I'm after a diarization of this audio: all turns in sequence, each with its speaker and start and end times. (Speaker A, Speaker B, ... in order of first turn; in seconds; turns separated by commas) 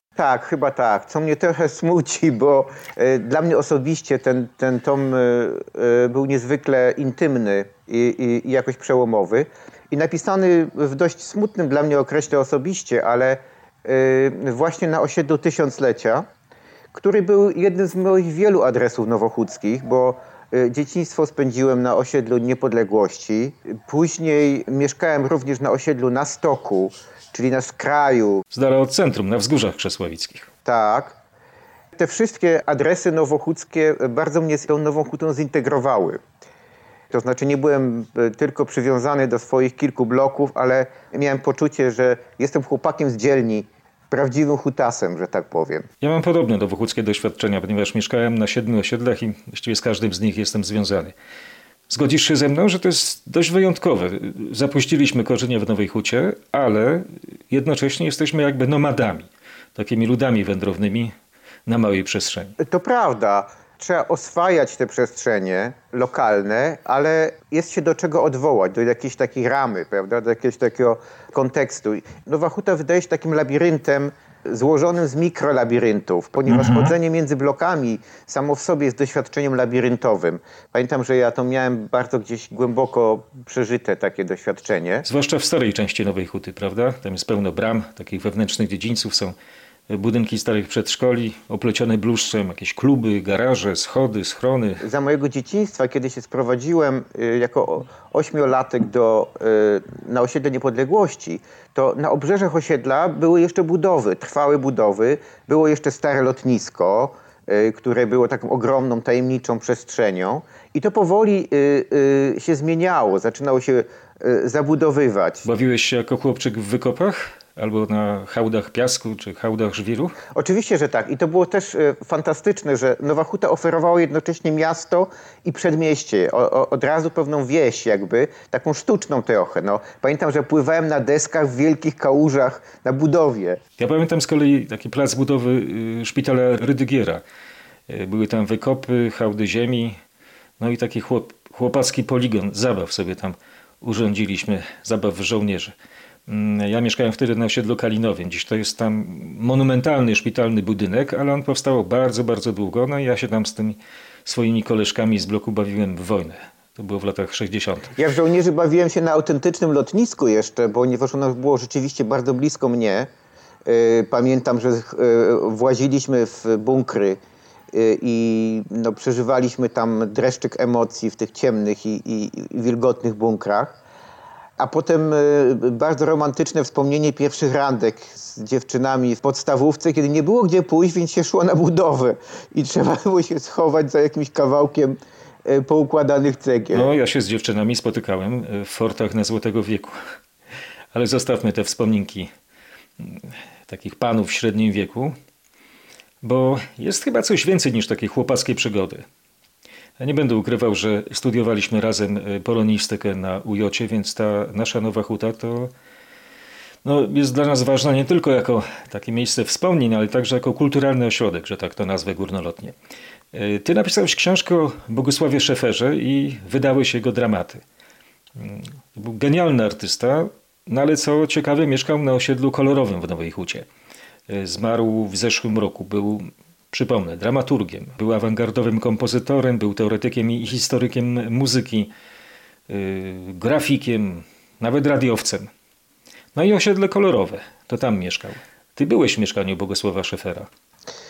Speaker A: 0.2-16.2, Speaker A: 16.9-28.4, Speaker B: 28.5-30.5, Speaker A: 30.6-31.2, Speaker A: 31.9-36.2, Speaker A: 37.1-45.9, Speaker B: 46.0-51.1, Speaker B: 51.9-61.1, Speaker B: 61.7-62.6, Speaker A: 62.6-85.1, Speaker B: 76.5-76.9, Speaker B: 85.0-89.3, Speaker B: 89.9-94.8, Speaker A: 94.8-115.5, Speaker B: 115.5-120.2, Speaker A: 120.3-133.6, Speaker B: 133.8-137.2, Speaker B: 137.9-140.0, Speaker B: 140.6-145.8, Speaker B: 146.3-157.9, Speaker A: 158.0-163.1, Speaker A: 163.7-167.2, Speaker A: 167.7-173.8, Speaker A: 174.6-186.9, Speaker B: 186.7-189.9, Speaker B: 190.9-192.3, Speaker B: 193.0-195.2, Speaker B: 196.2-199.1, Speaker B: 200.0-205.7, Speaker B: 206.8-212.8, Speaker B: 213.3-217.6, Speaker B: 218.4-223.7, Speaker B: 224.3-231.9, Speaker B: 232.7-235.5, Speaker B: 236.3-240.5